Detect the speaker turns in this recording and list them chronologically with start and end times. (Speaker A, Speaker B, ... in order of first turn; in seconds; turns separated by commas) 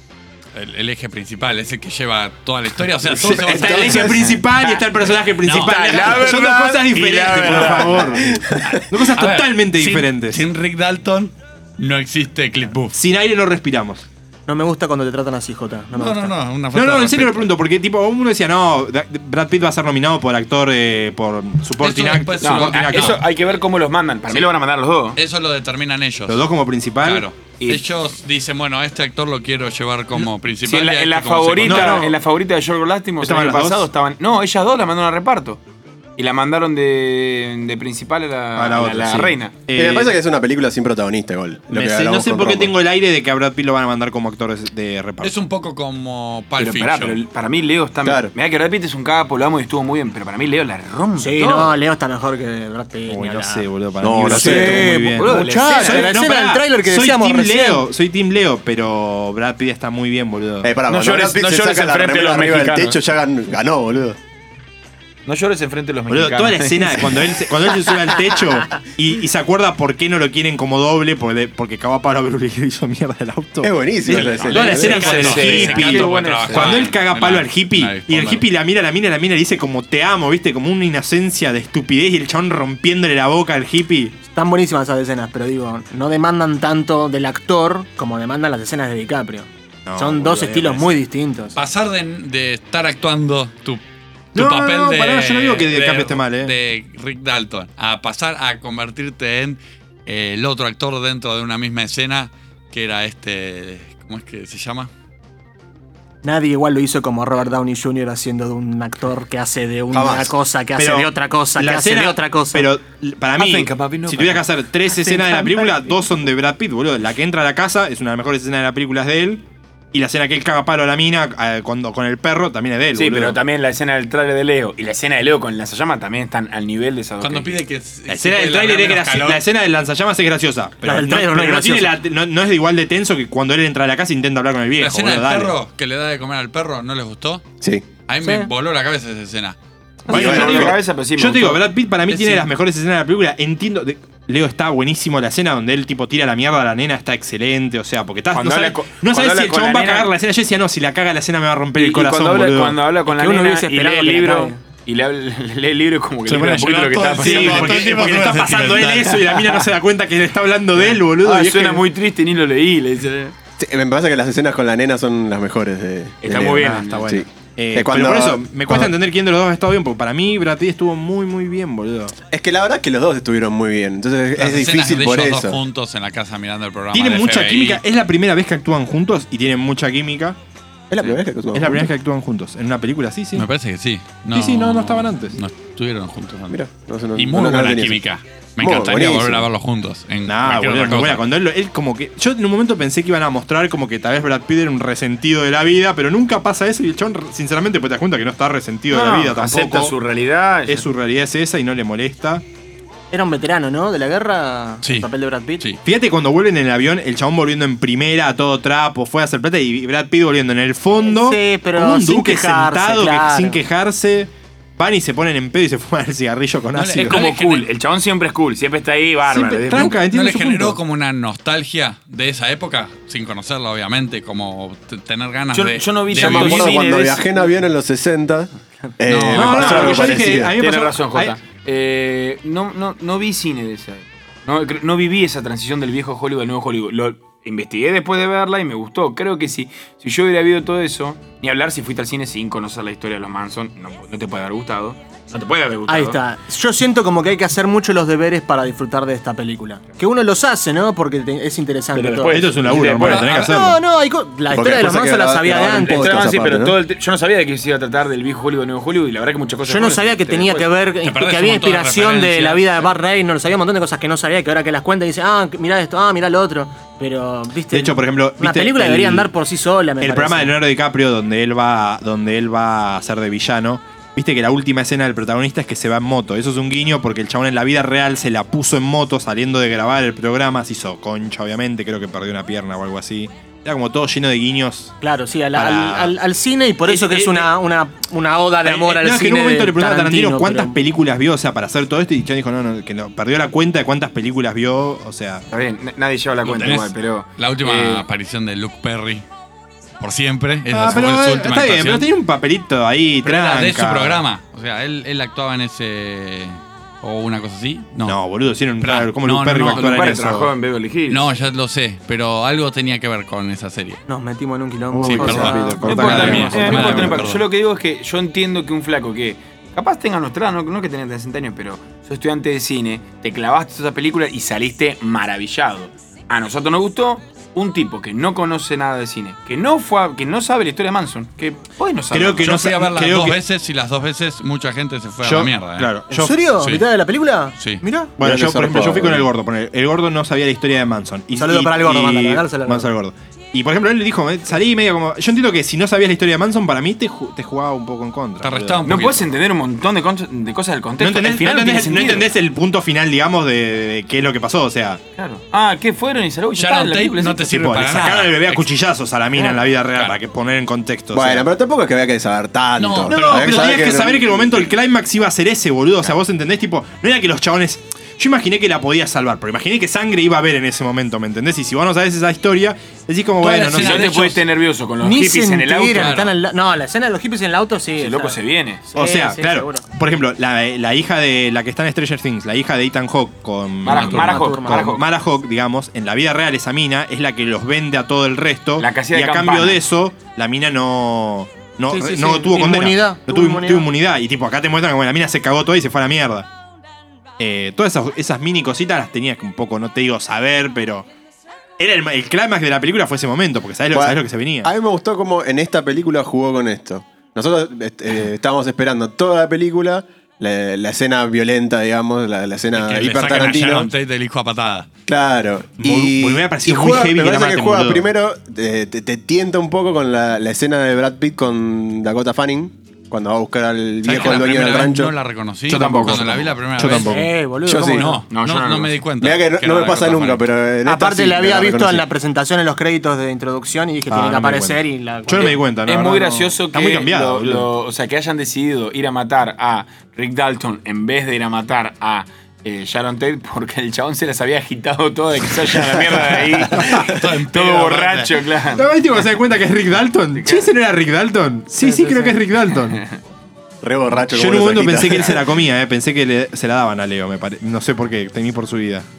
Speaker A: 0.5-4.2, Speaker B: 3.0-10.4, Speaker C: 3.3-4.3, Speaker D: 3.9-4.4, Speaker A: 5.4-6.4, Speaker D: 5.6-8.2, Speaker C: 7.3-8.8, Speaker A: 8.6-13.0, Speaker B: 12.9-14.1, Speaker E: 14.5-16.3, Speaker A: 15.9-17.5, Speaker B: 16.7-23.2, Speaker A: 21.8-23.2, Speaker D: 22.4-25.2, Speaker A: 25.1-26.4, Speaker B: 26.3-27.2, Speaker A: 27.0-32.0, Speaker D: 30.2-35.6, Speaker B: 31.6-32.1, Speaker B: 33.2-33.9, Speaker D: 36.2-39.7, Speaker B: 38.5-40.1, Speaker C: 39.7-42.7, Speaker B: 41.7-45.4, Speaker A: 45.2-47.2, Speaker D: 46.6-51.7, Speaker C: 48.0-48.3, Speaker E: 51.2-53.7, Speaker B: 53.1-60.7, Speaker C: 54.0-55.0, Speaker E: 54.2-57.8, Speaker D: 54.4-56.1, Speaker C: 60.6-64.2, Speaker D: 60.9-63.0, Speaker D: 65.2-67.3, Speaker B: 66.1-84.2, Speaker C: 73.6-75.3, Speaker A: 74.1-78.4, Speaker D: 74.5-76.9, Speaker E: 84.3-91.6, Speaker B: 89.8-91.0, Speaker A: 91.5-93.8, Speaker A: 94.3-104.9, Speaker B: 94.3-96.5, Speaker E: 106.2-112.7, Speaker C: 109.9-110.3, Speaker B: 110.8-123.4, Speaker D: 113.4-114.4, Speaker E: 114.9-115.8, Speaker D: 122.9-127.6, Speaker A: 127.2-129.4, Speaker B: 128.1-135.6, Speaker E: 130.8-131.9, Speaker A: 134.8-137.4, Speaker A: 138.1-139.6, Speaker E: 138.2-138.5, Speaker D: 140.1-141.6, Speaker B: 140.1-152.8, Speaker C: 140.1-140.8, Speaker D: 148.3-150.1, Speaker D: 151.8-158.2, Speaker E: 153.1-154.6, Speaker A: 156.2-159.3, Speaker B: 157.1-161.8, Speaker D: 159.2-159.6, Speaker D: 160.8-163.3, Speaker C: 163.6-168.9, Speaker D: 166.2-167.1, Speaker B: 166.3-172.1, Speaker C: 172.3-175.6, Speaker A: 174.3-177.8, Speaker B: 176.9-180.4, Speaker C: 180.9-181.9, Speaker B: 181.5-183.5, Speaker A: 183.3-186.6, Speaker B: 184.3-185.4, Speaker C: 186.5-188.0, Speaker A: 187.2-191.2, Speaker C: 188.6-189.4, Speaker B: 190.2-199.9, Speaker D: 198.9-200.8, Speaker B: 200.7-202.4, Speaker E: 203.1-205.6, Speaker B: 205.8-217.2, Speaker E: 211.0-213.6, Speaker A: 216.7-217.7, Speaker D: 217.0-219.9, Speaker B: 219.3-220.8, Speaker A: 219.7-226.8, Speaker D: 225.5-227.5, Speaker C: 226.1-230.5, Speaker A: 229.1-230.2, Speaker B: 229.3-231.4, Speaker D: 230.1-246.2, Speaker E: 245.9-256.2, Speaker D: 251.9-253.4, Speaker B: 252.2-253.8, Speaker C: 254.5-256.8, Speaker D: 255.5-260.7, Speaker E: 259.7-270.5, Speaker A: 261.0-262.8, Speaker B: 267.7-269.3, Speaker B: 270.0-284.9, Speaker E: 285.0-290.8, Speaker B: 285.5-286.1, Speaker B: 286.9-287.4, Speaker B: 288.6-295.4, Speaker D: 295.5-298.1, Speaker A: 296.4-299.2, Speaker A: 300.0-302.1, Speaker B: 300.7-304.2, Speaker A: 303.2-308.2, Speaker B: 308.0-310.5, Speaker A: 308.8-310.1, Speaker D: 309.7-311.2, Speaker A: 311.1-314.0, Speaker E: 314.1-317.0, Speaker B: 314.9-317.3, Speaker A: 315.1-317.4, Speaker D: 315.8-332.6, Speaker B: 332.1-333.4, Speaker A: 332.4-335.9, Speaker B: 335.2-336.4, Speaker E: 336.1-338.1, Speaker B: 338.2-348.9, Speaker C: 338.2-339.2, Speaker E: 341.3-342.9, Speaker A: 348.4-349.3, Speaker D: 348.8-352.3, Speaker B: 351.0-355.0, Speaker D: 355.2-357.4, Speaker A: 356.6-358.6, Speaker B: 357.4-361.5, Speaker C: 361.1-364.5, Speaker A: 362.8-363.9, Speaker B: 363.1-374.4, Speaker A: 373.4-374.3, Speaker D: 373.7-376.2, Speaker E: 375.0-378.4, Speaker A: 375.9-376.3, Speaker D: 378.0-378.9, Speaker E: 378.9-379.9, Speaker B: 378.9-396.5, Speaker D: 383.8-385.1, Speaker E: 383.9-384.9, Speaker D: 388.8-389.8, Speaker E: 391.9-393.9, Speaker B: 397.4-401.1, Speaker B: 401.8-404.7, Speaker C: 403.9-413.9, Speaker A: 412.7-414.9, Speaker C: 415.1-425.1, Speaker B: 415.8-418.1, Speaker A: 424.0-427.1, Speaker D: 425.7-426.5, Speaker B: 425.7-427.3, Speaker E: 427.1-428.2, Speaker C: 427.6-428.2, Speaker A: 427.9-430.4, Speaker D: 428.3-429.0, Speaker C: 429.2-432.0, Speaker E: 430.8-435.6, Speaker B: 434.1-437.7, Speaker D: 435.4-448.9, Speaker B: 446.7-447.0, Speaker A: 446.8-448.4, Speaker B: 448.7-453.0, Speaker D: 450.4-450.7, Speaker E: 451.8-452.3, Speaker C: 453.8-455.5, Speaker B: 454.3-459.1